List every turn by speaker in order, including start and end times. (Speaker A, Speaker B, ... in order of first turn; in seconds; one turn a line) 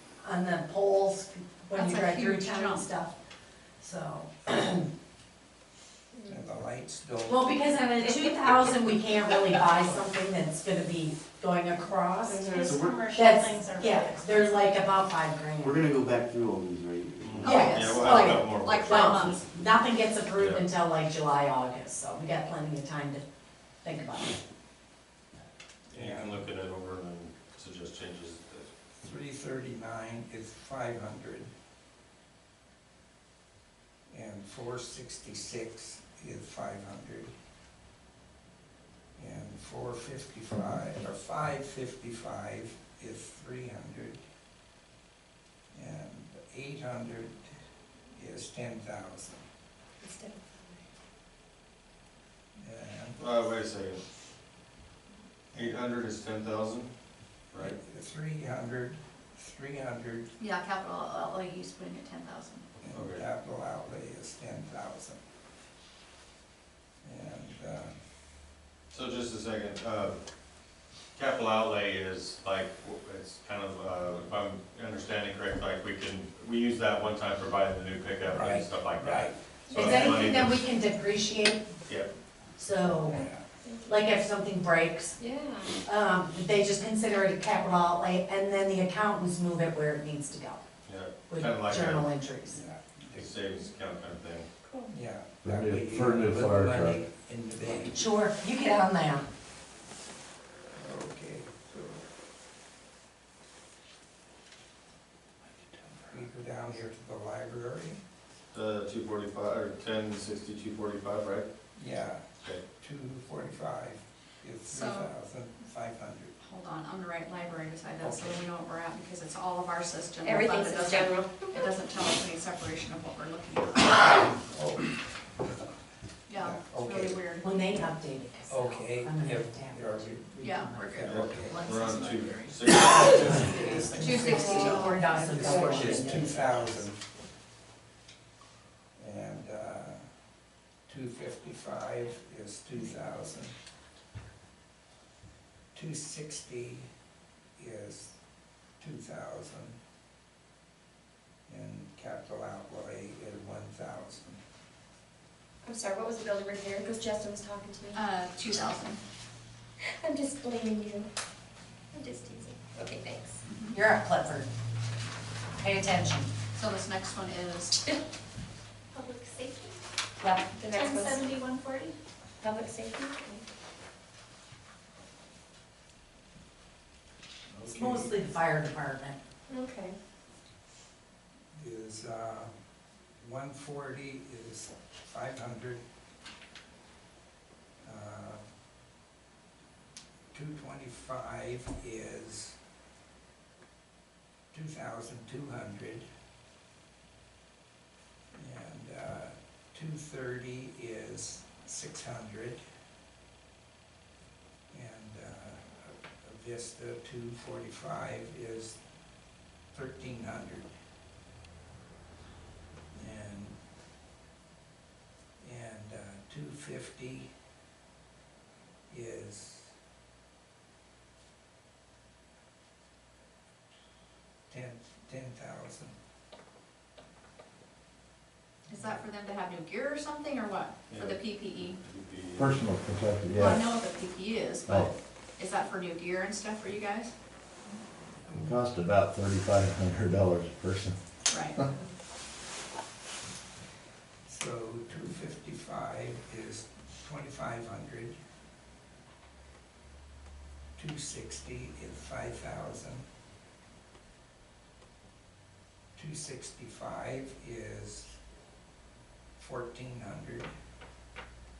Speaker A: 0.2-3.1
Speaker B: 1.7-2.9
Speaker A: 3.8-4.9
Speaker C: 6.1-6.4
Speaker D: 6.3-7.8
Speaker A: 7.3-15.8
Speaker C: 12.2-12.9
Speaker E: 12.5-14.6
Speaker F: 15.6-17.7
Speaker G: 17.2-19.3
Speaker A: 17.4-23.2
Speaker B: 17.4-19.4
Speaker G: 20.3-20.6
Speaker A: 23.8-24.4
Speaker G: 25.9-28.7
Speaker D: 25.9-26.4
Speaker D: 29.0-31.5
Speaker D: 34.1-37.3
Speaker D: 39.1-44.2
Speaker D: 45.7-47.5
Speaker D: 48.1-49.4
Speaker C: 50.0-50.8
Speaker D: 52.6-53.2
Speaker G: 53.2-54.0
Speaker G: 55.5-56.9
Speaker D: 57.6-60.3
Speaker B: 60.4-62.6
Speaker D: 62.8-65.2
Speaker G: 62.9-63.2
Speaker D: 67.0-68.0
Speaker G: 68.9-70.2
Speaker G: 71.2-80.7
Speaker D: 78.3-79.4
Speaker C: 79.7-80.0
Speaker A: 79.7-81.6
Speaker A: 82.5-83.2
Speaker C: 83.0-84.1
Speaker D: 83.0-83.4
Speaker A: 83.8-85.2
Speaker C: 85.2-85.8
Speaker A: 85.8-90.6
Speaker G: 90.8-92.1
Speaker A: 91.3-92.6
Speaker D: 92.5-93.3
Speaker G: 93.1-94.5
Speaker C: 94.6-94.9
Speaker D: 94.9-98.1
Speaker H: 95.4-97.0
Speaker A: 97.8-99.2
Speaker D: 100.7-102.0
Speaker D: 105.9-108.0
Speaker G: 108.5-111.5
Speaker D: 111.8-112.2
Speaker D: 112.8-116.3
Speaker B: 114.7-115.1
Speaker B: 116.4-124.3
Speaker D: 118.0-118.4
Speaker C: 120.2-121.7
Speaker D: 124.5-124.9
Speaker B: 126.3-127.5
Speaker D: 126.4-127.2
Speaker A: 127.4-131.0
Speaker D: 128.5-131.6
Speaker B: 130.4-135.6
Speaker G: 131.0-133.5
Speaker D: 133.1-137.0
Speaker A: 133.5-136.5
Speaker C: 134.1-136.3
Speaker D: 138.9-140.1
Speaker D: 140.9-143.5
Speaker D: 145.7-146.9
Speaker D: 147.6-148.2
Speaker D: 148.8-149.8
Speaker D: 151.5-154.4
Speaker C: 155.6-158.0
Speaker B: 157.9-159.0
Speaker C: 160.0-161.1
Speaker C: 161.9-163.4
Speaker B: 163.4-163.8
Speaker A: 163.7-164.5
Speaker A: 165.6-166.3
Speaker B: 166.5-167.9
Speaker E: 168.9-169.8
Speaker C: 170.2-171.3
Speaker E: 170.7-171.9
Speaker C: 172.4-173.4
Speaker D: 177.5-178.2
Speaker A: 177.7-179.2
Speaker C: 179.5-179.9
Speaker D: 181.5-182.5
Speaker D: 183.2-185.8
Speaker D: 187.8-188.4
Speaker D: 190.3-192.6
Speaker D: 194.5-196.1
Speaker D: 198.3-202.6
Speaker D: 204.7-208.8
Speaker D: 209.7-210.7
Speaker D: 212.9-213.6
Speaker D: 215.4-217.3
Speaker D: 218.9-219.7
Speaker D: 224.5-225.9
Speaker B: 228.7-231.8
Speaker G: 230.9-231.2
Speaker G: 231.8-232.6
Speaker H: 232.3-233.7
Speaker B: 233.3-237.1
Speaker H: 238.3-241.0
Speaker B: 241.3-241.6
Speaker D: 244.2-248.2
Speaker D: 250.8-253.1
Speaker D: 255.9-258.2
Speaker D: 259.4-260.5